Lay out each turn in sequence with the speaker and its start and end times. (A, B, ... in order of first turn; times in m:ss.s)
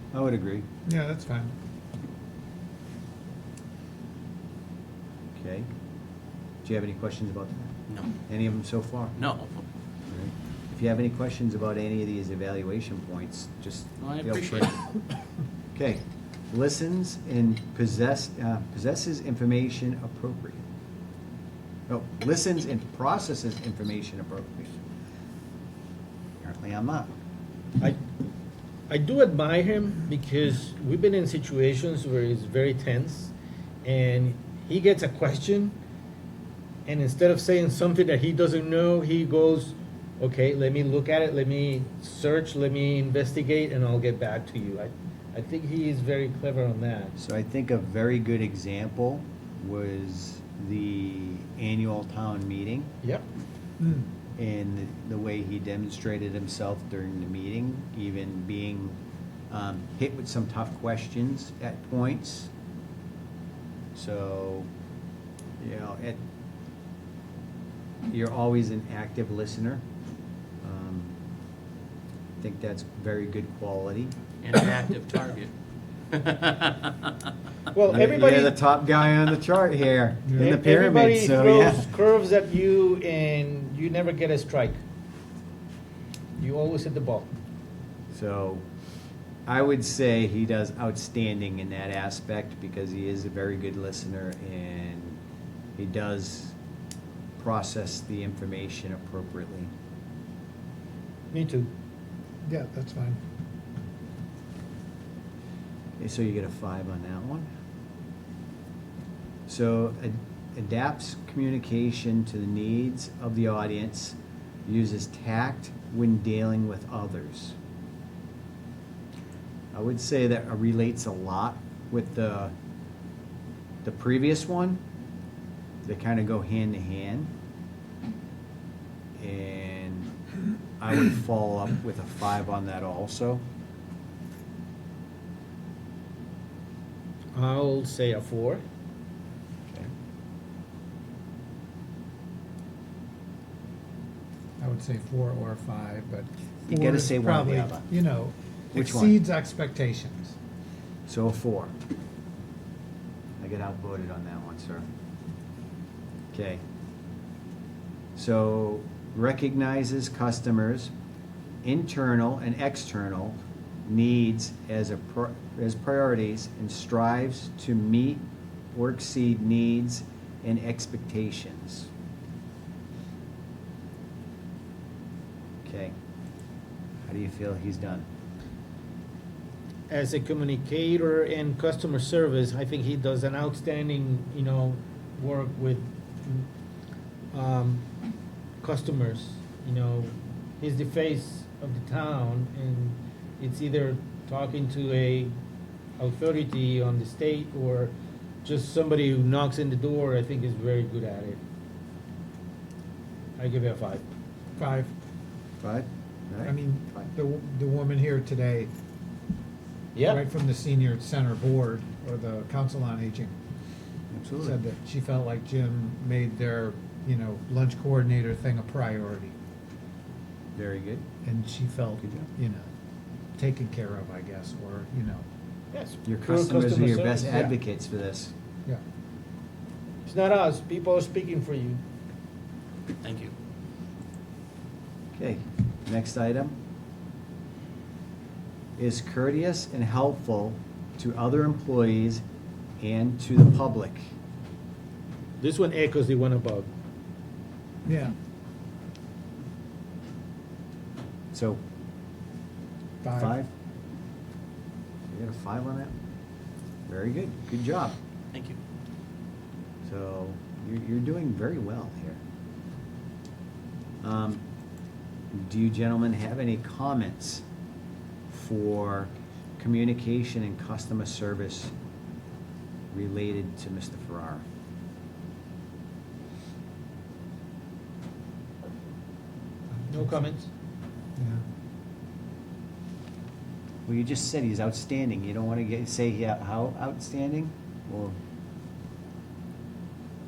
0:00.1-0:00.6 A
0:00.9-0:01.5 B
0:05.4-0:05.7 A
0:06.6-0:09.2 A
0:09.2-0:09.6 C
0:10.1-0:14.7 A
0:14.0-0:14.8 C
0:15.8-0:20.6 A
0:21.9-0:24.8 A
0:26.4-0:27.1 A
0:28.9-0:33.3 D
0:33.8-0:35.8 D
0:36.9-0:47.2 D
0:47.2-0:52.9 A
0:53.8-0:54.1 B
0:54.4-0:59.0 A
0:59.5-1:02.5 A
1:04.0-1:04.7 A
1:05.6-1:06.2 A
1:08.1-1:09.8 A
1:10.6-1:11.2 A
1:12.4-1:14.2 A
1:14.4-1:15.5 C
1:16.1-1:17.1 C
1:17.7-1:18.6 D
1:17.9-1:21.9 A
1:20.3-1:20.5 B
1:20.4-1:24.8 D
1:26.4-1:27.3 D
1:28.1-1:28.6 A
1:29.5-1:35.2 A
1:35.8-1:36.6 A
1:37.4-1:39.7 A
1:41.3-1:41.7 D
1:42.4-1:43.2 B
1:46.0-1:47.5 A
1:49.5-1:57.6 A
1:59.7-2:02.5 A
2:03.8-2:04.8 A
2:05.8-2:07.3 A
2:09.2-2:10.1 A
2:10.8-2:13.4 A
2:17.3-2:18.6 D
2:24.6-2:30.4 B
2:26.7-2:27.9 A
2:28.7-2:29.2 A
2:31.1-2:31.7 A
2:33.4-2:34.9 A
2:36.3-2:36.6 A
2:38.2-2:40.9 A
2:41.6-2:51.9 A
2:55.6-2:56.0 A
2:57.1-2:58.1 A
2:59.9-3:06.5 D
3:07.3-3:07.8 D
3:08.6-3:15.3 D
3:16.0-3:17.9 D
3:18.4-3:21.4 D
3:23.4-3:24.0 D
3:24.6-3:24.9 B
3:25.6-3:27.1 A
3:26.4-3:28.7 B
3:30.0-3:30.2 D
3:30.1-3:33.3 B
3:34.1-3:34.6 A
3:34.4-3:39.3 B
3:40.6-3:41.0 A
3:41.2-3:42.7 B
3:42.0-3:42.3 A
3:43.4-3:45.2 B
3:45.7-3:47.5 D
3:46.1-3:48.3 A
3:50.0-3:51.8 D
3:53.0-3:53.3 C
3:55.2-3:56.5 A
3:58.8-4:02.2 A
4:02.8-4:04.1 A
4:05.4-4:06.7 D
4:07.8-4:08.2 B
4:11.3-4:11.6 A
4:13.0-4:13.4 B
4:13.2-4:13.5 A
4:15.1-4:15.9 A
4:16.9-4:18.0 A
4:18.3-4:18.6 C
4:19.8-4:22.2 A
4:24.0-4:24.4 A
4:25.3-4:27.4 A
4:28.3-4:31.7 A
4:32.9-4:34.4 A
4:39.7-4:40.3 B
4:39.9-4:40.5 D
4:41.2-4:41.4 B
4:43.9-4:48.2 A